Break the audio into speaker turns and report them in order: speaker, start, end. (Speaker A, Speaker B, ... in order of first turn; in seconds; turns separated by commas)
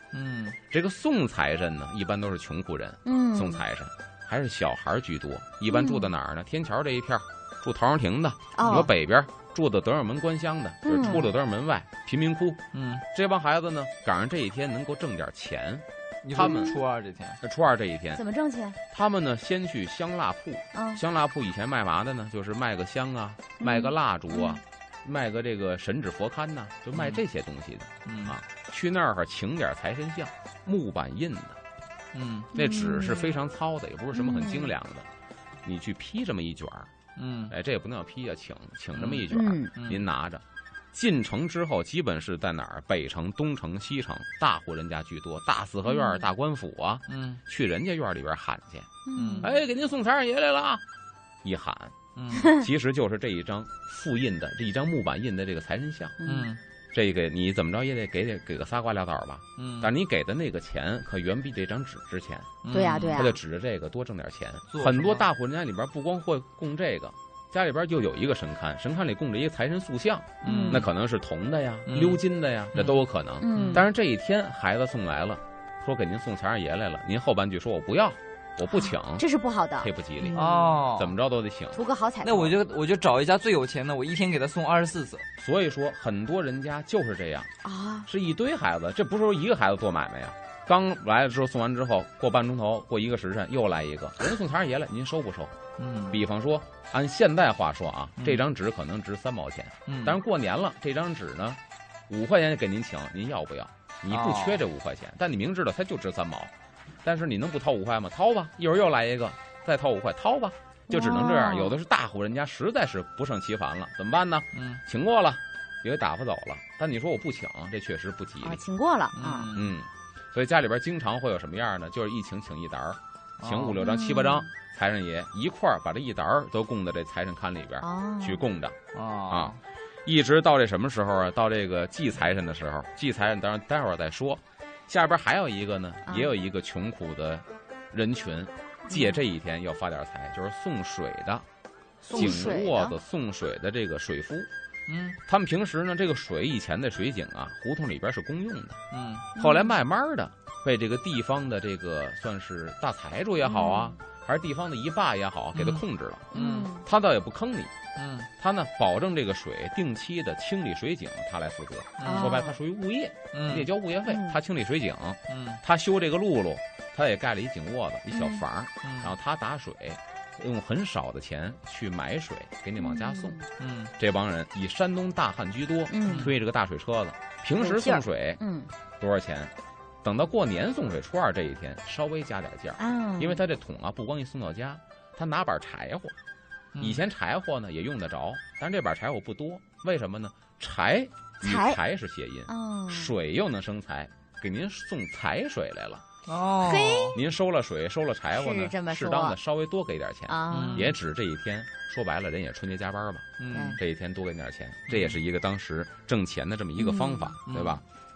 Speaker A: 0.1-0.6, Speaker B: 0.7-16.8, Speaker C: 3.0-3.6, Speaker C: 5.7-6.1, Speaker C: 8.5-8.9, Speaker C: 10.8-11.3, Speaker A: 11.0-11.3, Speaker A: 12.7-13.0, Speaker A: 16.2-17.4, Speaker C: 16.4-16.8, Speaker B: 17.4-18.2, Speaker C: 18.1-18.8, Speaker B: 18.9-31.6, Speaker C: 20.7-21.0, Speaker C: 23.6-24.6, Speaker A: 26.9-27.2, Speaker A: 28.1-28.3, Speaker A: 32.1-32.5, Speaker C: 32.5-33.4, Speaker B: 32.5-35.1, Speaker C: 34.1-34.7, Speaker B: 35.6-36.9, Speaker A: 37.1-37.5, Speaker B: 37.5-50.8, Speaker A: 38.9-40.0, Speaker C: 39.3-39.7, Speaker C: 45.9-46.2, Speaker A: 47.1-47.4, Speaker C: 49.0-49.5, Speaker A: 49.1-49.5, Speaker B: 51.4-56.1, Speaker A: 52.1-52.5, Speaker C: 56.2-56.5, Speaker A: 56.2-56.6, Speaker B: 56.9-62.5, Speaker A: 59.6-59.9, Speaker A: 62.6-63.2, Speaker C: 62.7-63.4, Speaker B: 63.1-79.2, Speaker A: 64.7-65.3, Speaker A: 70.4-70.9, Speaker C: 70.4-70.8, Speaker A: 71.9-72.2, Speaker A: 72.7-73.0, Speaker C: 73.4-73.9, Speaker A: 73.5-73.8, Speaker C: 78.7-80.7, Speaker B: 79.8-81.8, Speaker A: 80.3-81.1, Speaker C: 81.7-82.5, Speaker A: 82.2-85.2, Speaker B: 85.4-87.5, Speaker C: 87.6-88.1, Speaker B: 88.0-95.5, Speaker A: 95.8-96.2, Speaker B: 96.1-106.5, Speaker A: 98.2-98.4, Speaker A: 99.9-100.2, Speaker A: 104.1-104.6, Speaker B: 107.0-118.6, Speaker C: 110.9-111.8, Speaker A: 114.5-114.8, Speaker C: 118.4-119.5, Speaker A: 119.1-119.7, Speaker B: 119.5-128.8, Speaker A: 123.4-123.8, Speaker C: 123.8-124.5, Speaker C: 127.8-128.4, Speaker A: 128.9-129.6, Speaker B: 129.3-141.4, Speaker C: 136.1-136.3, Speaker C: 138.9-139.2, Speaker A: 142.0-142.5, Speaker C: 142.1-142.9, Speaker B: 142.1-144.5, Speaker A: 144.9-145.2, Speaker B: 145.2-148.8, Speaker A: 148.9-149.3, Speaker C: 149.3-149.8, Speaker B: 149.4-157.7, Speaker C: 153.4-153.9, Speaker A: 155.5-156.7, Speaker C: 156.3-156.8, Speaker A: 157.9-158.3, Speaker B: 158.4-173.4, Speaker A: 162.0-162.4, Speaker C: 162.0-162.5, Speaker A: 163.3-163.7, Speaker C: 164.1-164.4, Speaker A: 165.3-165.6, Speaker C: 168.1-168.4, Speaker A: 168.8-169.1, Speaker C: 172.8-173.4, Speaker A: 173.6-173.9, Speaker B: 174.0-178.4, Speaker C: 175.9-176.3, Speaker A: 176.0-176.3, Speaker C: 177.6-178.7, Speaker B: 179.0-186.2, Speaker C: 182.8-183.4, Speaker A: 186.7-187.0, Speaker B: 186.8-196.0, Speaker C: 191.4-191.8, Speaker C: 192.5-193.1, Speaker A: 196.3-197.2, Speaker C: 196.6-197.2, Speaker B: 197.1-207.8, Speaker C: 198.3-199.3, Speaker C: 200.3-200.9, Speaker A: 200.5-200.9, Speaker A: 203.4-203.8, Speaker C: 203.5-203.8, Speaker A: 204.9-205.2, Speaker C: 206.8-207.3, Speaker A: 207.4-207.8